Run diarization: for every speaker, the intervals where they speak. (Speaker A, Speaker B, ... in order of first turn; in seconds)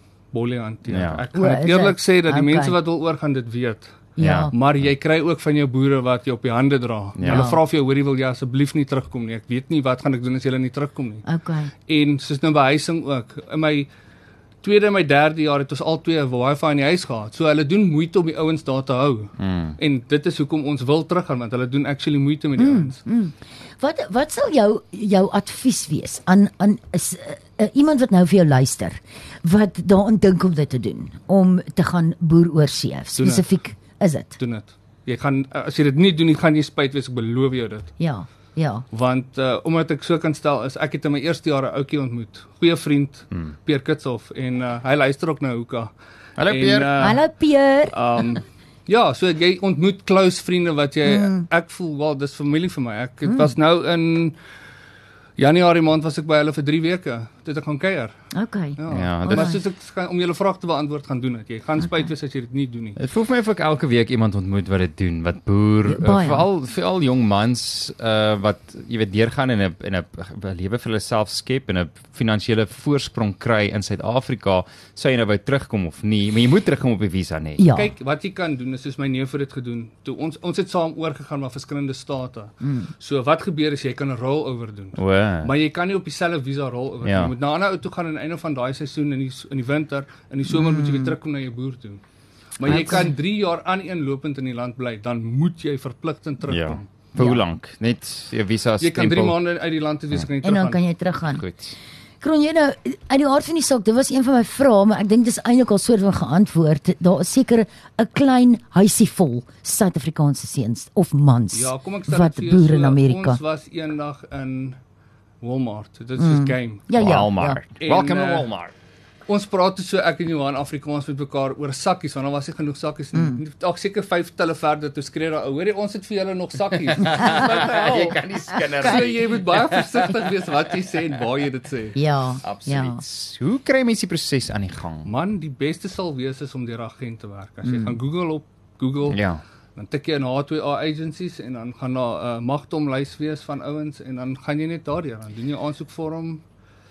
Speaker A: 0.3-11.2, 11.9-13.9, 14.6-23.0, 33.2-33.5, 34.4-37.9, 38.9-45.9, 46.5-47.3, 47.9-54.4, 55.4-58.1, 58.8-63.0, 77.7-92.0, 92.6-96.9, 98.8-100.8, 111.5-114.8, 115.4-116.9, 117.8-118.5, 119.3-128.2, 128.8-132.0, 135.1-139.2, 139.8-146.4
Speaker B: 0.9-1.2, 4.2-4.5, 7.2-7.5, 19.4-19.8, 46.4-46.9, 58.9-59.5, 63.0-77.6, 84.9-85.5, 87.0-87.3, 96.4-99.4, 101.3-101.8, 116.9-118.7, 126.9-130.1, 132.4-135.1, 139.1-139.4
Speaker C: 1.3-2.8, 4.2-4.5, 7.2-7.6, 11.3-11.7, 22.6-34.4, 38.0-38.9, 47.0-48.0, 51.1-51.5, 58.3-59.6, 65.9-66.5, 77.6-77.9, 82.6-82.9, 90.5-91.2, 92.6-93.1, 97.2-97.4, 100.4-101.4, 102.2-113.4, 116.2-117.6, 123.1-123.4, 127.0-127.4, 128.6-128.9, 131.9-133.0, 137.6-138.0